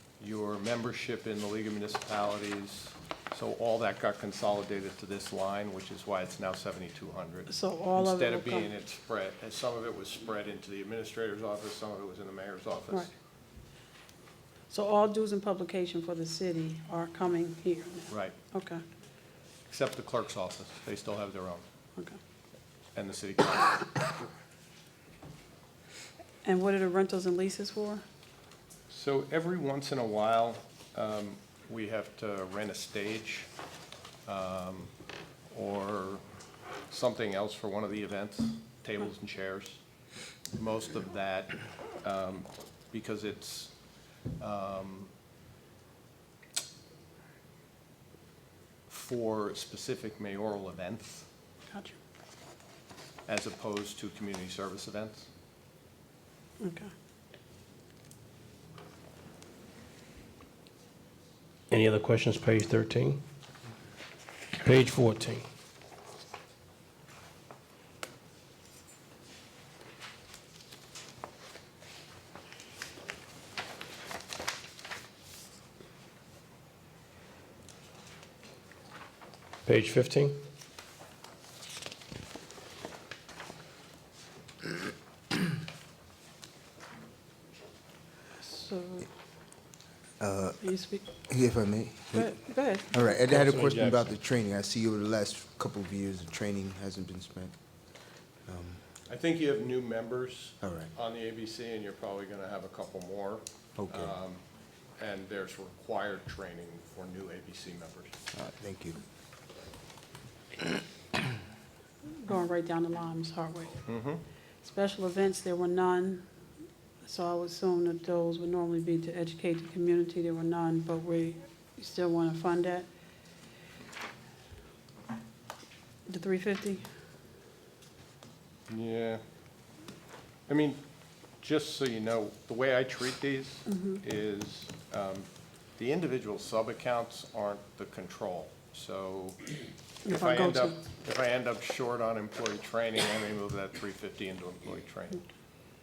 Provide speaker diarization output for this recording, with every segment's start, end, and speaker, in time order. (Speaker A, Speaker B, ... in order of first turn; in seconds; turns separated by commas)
Speaker A: 0.2-13.1, Speaker B: 7.5-8.7, Speaker B: 14.7-18.8, Speaker A: 18.1-18.4, Speaker A: 19.7-21.6, Speaker A: 22.9-23.9, Speaker B: 26.4-28.0, Speaker A: 28.9-33.5, Speaker A: 34.3-34.9, Speaker A: 35.5-36.2, Speaker A: 36.9-39.8, Speaker A: 40.6-43.7, Speaker A: 44.4-45.1, Speaker A: 48.9-51.3, Speaker B: 51.7-52.0, Speaker A: 53.3-55.3, Speaker B: 56.6-56.9, Speaker C: 61.7-63.2, Speaker C: 64.6-65.4, Speaker C: 79.7-80.4, Speaker B: 88.4-89.1, Speaker D: 90.2-90.6, Speaker B: 90.6-91.1, Speaker D: 91.2-97.5, Speaker B: 92.1-93.1, Speaker D: 98.5-98.8, Speaker A: 99.1-104.4, Speaker D: 100.6-100.9, Speaker D: 103.8-104.1, Speaker A: 105.0-108.1, Speaker D: 108.3-109.0, Speaker B: 112.2-113.8, Speaker A: 113.8-114.2, Speaker B: 114.6-116.3, Speaker B: 117.0-122.9, Speaker B: 126.1-126.9, Speaker A: 128.7-129.2, Speaker A: 130.5-130.8, Speaker A: 131.4-139.4, Speaker B: 133.7-134.0, Speaker B: 140.1-140.8, Speaker A: 140.1-145.2